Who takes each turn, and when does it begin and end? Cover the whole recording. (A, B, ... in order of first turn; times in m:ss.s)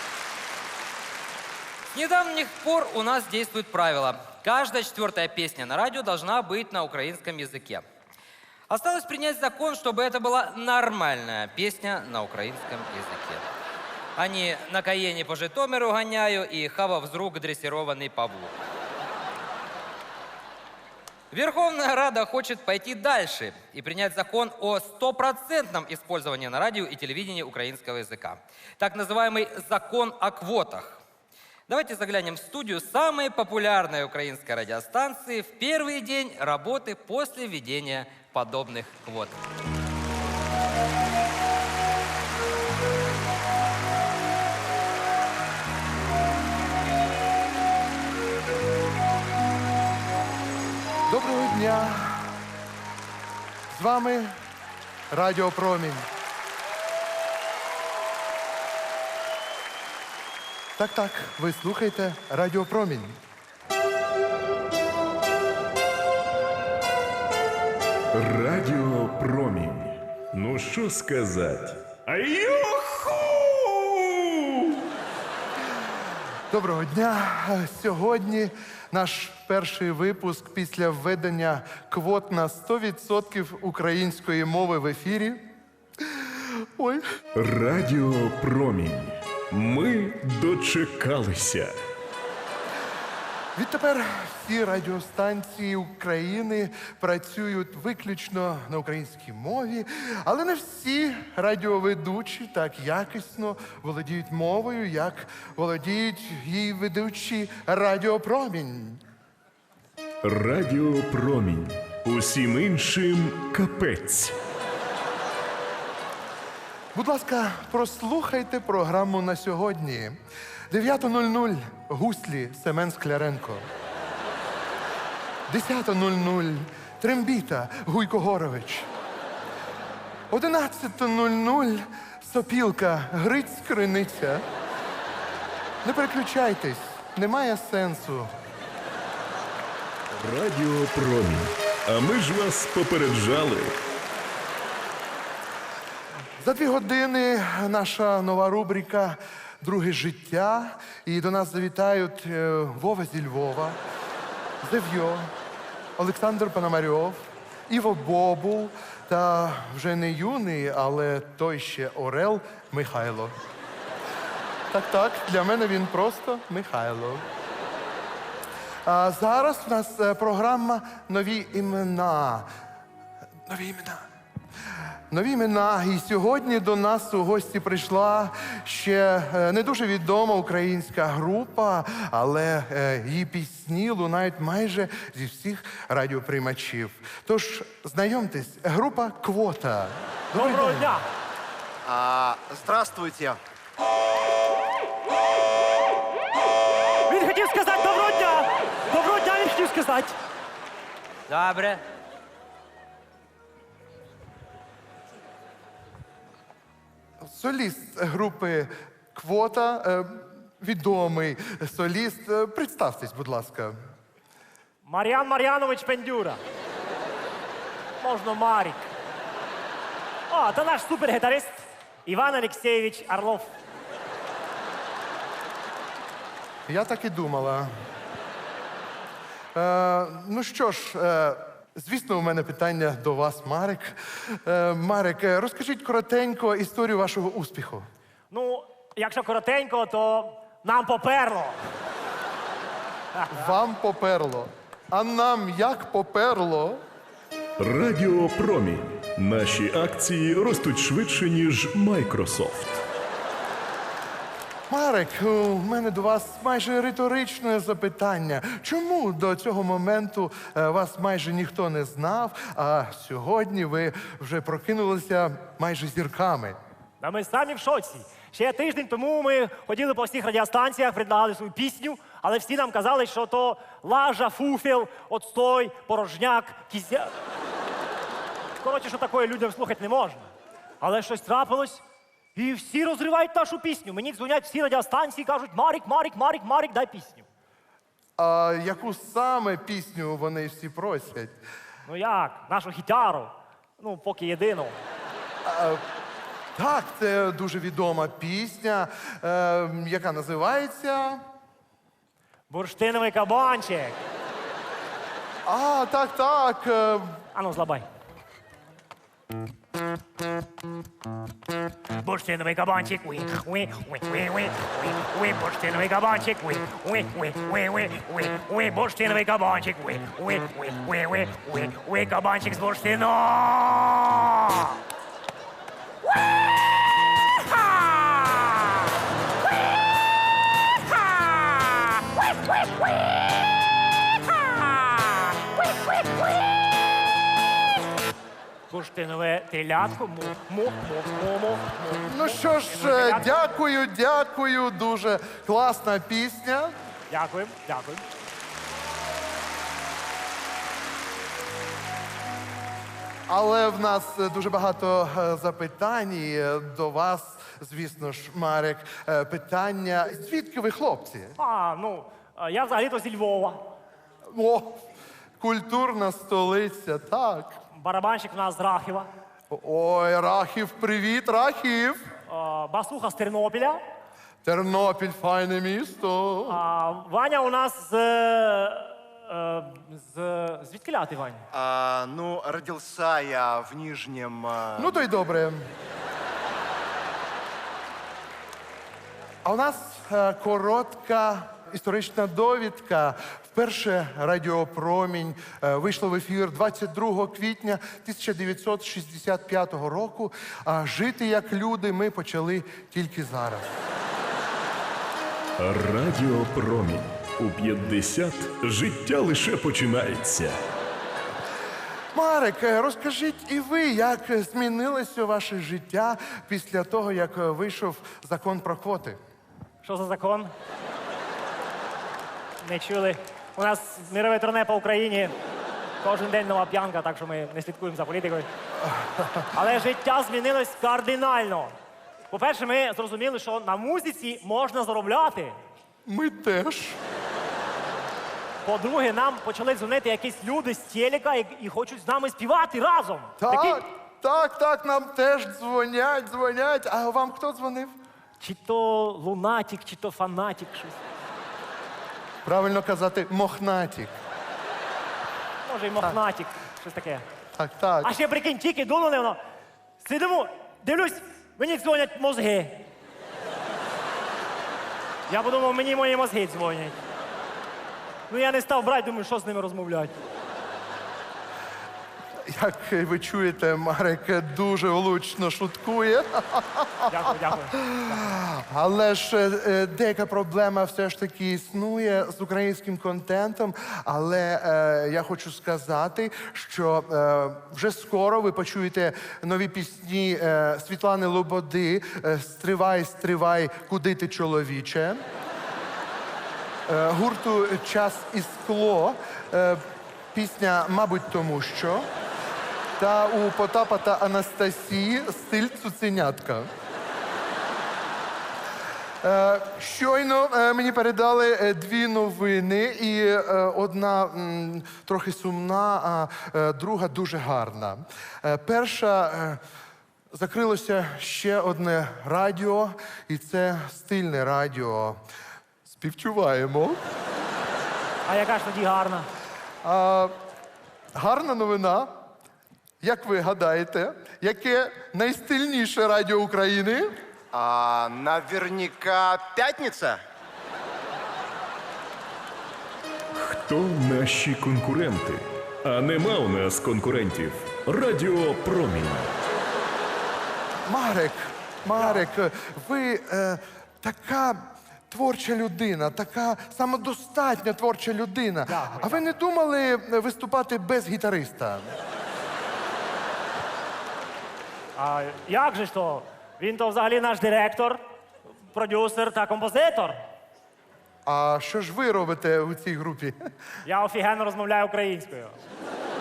0:01.9-0:07.8 A
0:08.7-0:13.5 A
0:14.2-0:18.5 A
0:21.3-0:31.0 A
0:31.7-0:39.4 A
0:51.1-0:52.4 B
0:53.7-0:54.3 B
0:55.1-0:56.1 B
1:00.8-1:03.2 B
1:08.1-1:14.8 C
1:16.5-1:27.0 B
1:27.3-1:31.7 C
1:33.6-1:49.0 B
1:50.2-1:54.3 C
1:56.9-2:00.2 B
2:00.7-2:03.7 B
2:05.5-2:08.9 B
2:10.3-2:14.4 B
2:15.8-2:18.3 B
2:20.1-2:23.8 C
2:26.4-2:33.8 B
2:34.6-2:35.3 B
2:36.0-2:43.3 B
2:44.7-2:47.2 B
2:48.8-2:52.5 B
2:53.4-2:54.1 B
2:55.1-3:11.0 B
3:10.3-3:11.0 D
3:11.8-3:13.4 E
3:17.1-3:20.2 D
3:21.3-3:21.8 A
3:27.2-3:33.8 B
3:34.8-3:36.4 D
3:38.0-3:38.9 D
3:40.3-3:43.5 D
3:46.7-3:47.7 B
3:49.5-3:57.9 B
3:58.3-4:01.6 D
4:03.2-4:03.5 D
4:03.3-4:06.8 B
4:07.6-4:12.8 C
4:14.7-4:26.6 B
4:27.0-4:37.1 D
4:38.6-4:40.3 D
4:40.8-4:41.8 D
4:42.4-4:47.3 D
4:48.2-4:51.4 B
4:51.9-4:54.8 D
4:55.4-4:55.8 B
4:56.6-5:01.2 B
5:02.5-5:04.0 D
5:05.4-5:07.2 B
5:07.4-5:07.8 D
5:12.0-5:24.7 D
5:27.9-5:28.1 D
5:38.7-5:43.3 D
5:42.1-5:46.8 B
5:47.1-5:48.0 D
5:53.3-6:01.4 B
6:01.4-6:03.7 D
6:04.3-6:04.8 B
6:05.4-6:07.6 B
6:07.8-6:09.1 D
6:09.5-6:12.0 B
6:12.3-6:13.8 D
6:14.4-6:16.6 B
6:16.5-6:21.4 D
6:21.5-6:24.9 E
6:24.8-6:25.7 B
6:29.4-6:43.8 B
6:45.6-6:50.6 C
6:52.1-6:59.2 B
6:59.8-7:00.5 D
7:02.6-7:05.4 D
7:06.0-7:08.5 D
7:08.8-7:09.5 B
7:09.5-7:11.7 D
7:12.3-7:15.6 D
7:16.0-7:17.0 B
7:18.6-7:23.8 D
7:23.4-7:27.9 B
7:28.4-7:31.0 D
7:32.4-7:34.1 B
7:35.6-7:37.2 D
7:37.6-7:38.1 B
7:38.0-7:39.4 D
7:40.0-7:42.9 D
7:45.3-7:47.0 D
7:48.3-7:50.1 D
7:52.4-8:15.2 B
7:57.1-7:58.1 D
8:16.9-8:22.1 B
8:23.0-8:26.7 B
8:29.2-8:39.6 B
8:40.3-8:45.2 B
8:45.9-8:47.0 B
8:48.2-8:49.3 D
8:49.8-8:50.4 B
8:51.1-8:52.1 B
8:53.0-8:57.2 B
8:57.5-9:00.2 E
9:03.3-9:09.3 C
9:10.9-9:22.0 B
9:12.0-9:12.2 D
9:18.7-9:19.3 D
9:25.0-9:28.0 D
9:28.7-9:30.2 D
9:31.2-9:33.4 B
9:33.8-9:35.6 D